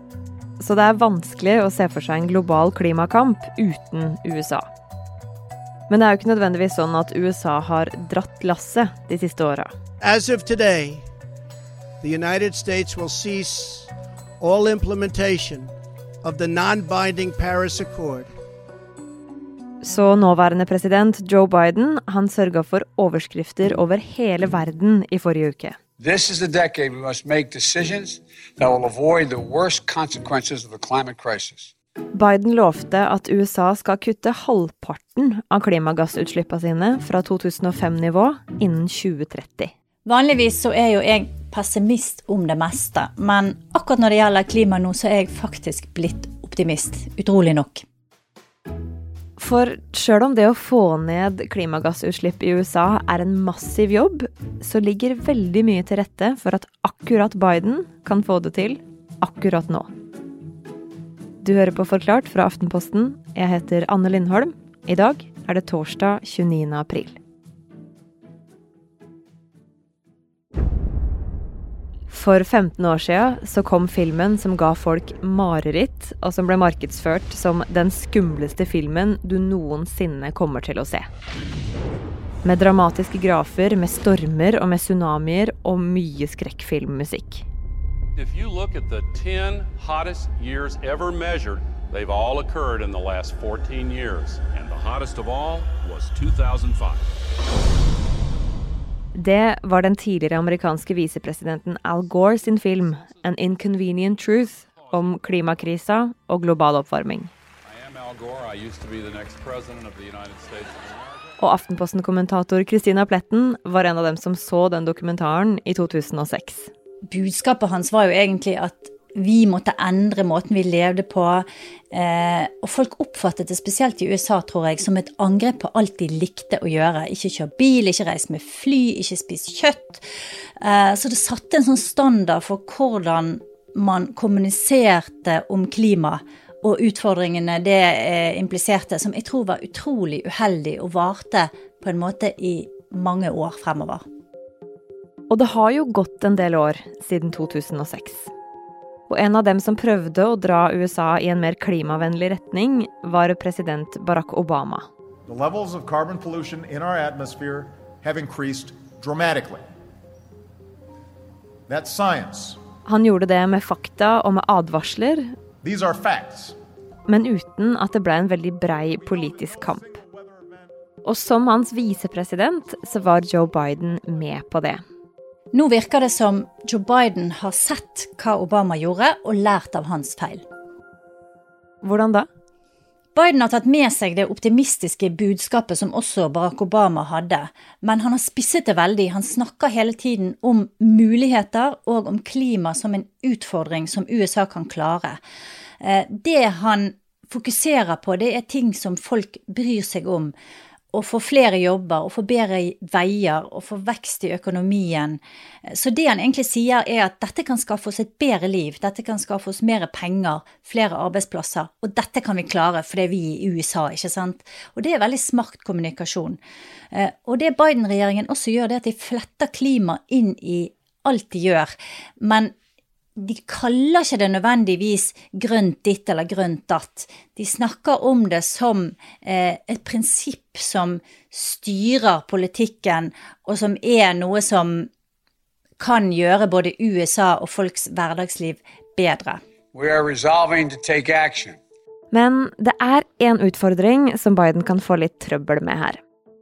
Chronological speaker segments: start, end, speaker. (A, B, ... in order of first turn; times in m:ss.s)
0:00.6-0:04.7 A
0:05.9-0:09.7 A
0:10.0-0:11.0 B
0:12.0-0:15.7 B
0:16.2-0:18.3 B
0:19.8-0:25.8 A
0:26.0-0:31.7 C
0:32.1-0:39.7 A
0:40.1-0:47.8 D
0:49.4-0:59.9 A
1:01.4-1:07.2 A
1:12.1-1:21.1 A
1:22.4-1:27.4 A
1:28.2-1:37.0 E
1:39.2-1:47.3 A
1:44.6-1:45.2 E
1:47.7-1:51.3 E
1:51.4-1:56.7 A
1:57.1-2:10.0 D
2:10.6-2:24.0 D
2:25.3-2:28.3 A
2:29.1-2:34.9 A
2:35.3-2:39.7 F
2:41.7-2:42.6 F
2:42.9-2:45.3 A
2:45.6-2:46.6 F
2:47.1-2:50.0 A
2:49.2-2:50.7 F
2:51.0-2:54.8 A
2:55.5-3:00.4 D
3:01.8-3:02.3 A
3:03.2-3:15.2 D
3:15.8-3:20.3 D
3:20.9-3:36.4 D
3:36.9-3:42.5 D
3:43.2-3:54.9 D
3:55.8-3:59.4 D
3:59.7-4:01.6 C
4:02.1-4:06.0 A